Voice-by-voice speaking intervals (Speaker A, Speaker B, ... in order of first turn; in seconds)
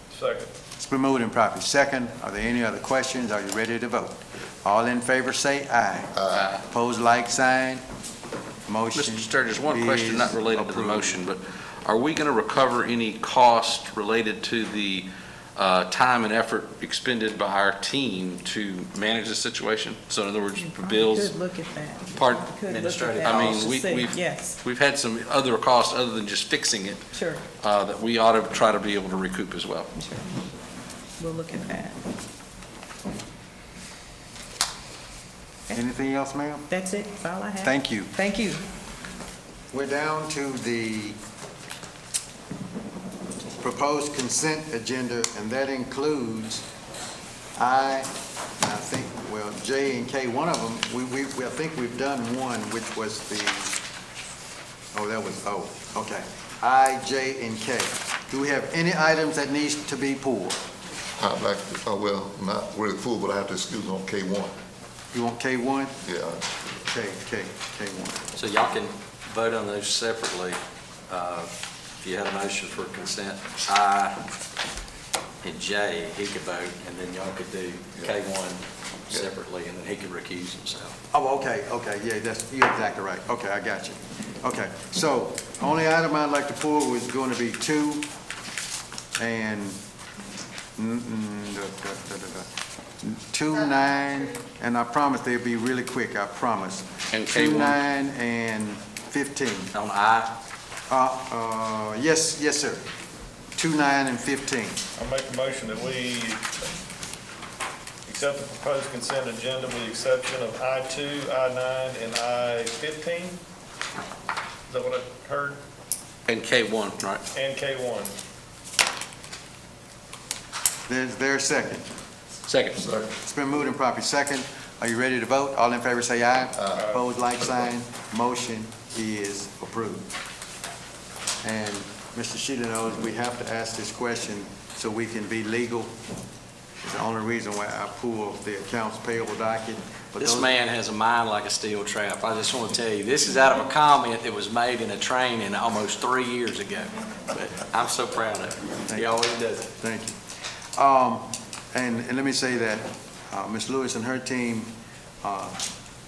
Speaker A: 0.1-0.5, 105.0-106.7, 108.1-113.4, 114.7-115.6, 117.3-118.1
Speaker B: 0.8-7.8, 8.7-11.2, 35.7-36.7, 37.6-38.1, 39.7-41.2, 43.6-46.6, 47.6-53.8, 54.9-60.6, 65.1-66.0, 66.7-68.3, 81.1-88.1, 89.2-89.8, 90.8-92.5, 93.0-99.7, 100.9-102.8, 103.6-104.8, 120.9-121.9, 123.2-130.1, 131.4-135.9, 136.8-140.5, 148.9-149.2, 149.8-150.2, 150.8-154.7, 155.2-155.6
Speaker C: 6.2-6.6, 61.2-64.6, 66.0-66.5, 122.8-123.1, 126.6-126.8
Speaker D: 6.3-6.6, 8.9-21.4, 22.1-22.5, 23.2-27.1, 27.6-29.9, 97.1-97.8, 116.3-117.2, 122.5-122.8
Speaker E: 20.6-24.6, 27.1-27.4, 29.9-30.3, 31.2-32.0, 36.7-38.6
Speaker F: 22.7-23.7, 68.3-71.5, 72.0-74.2, 75.4-80.9, 99.7-100.3, 140.2-149.7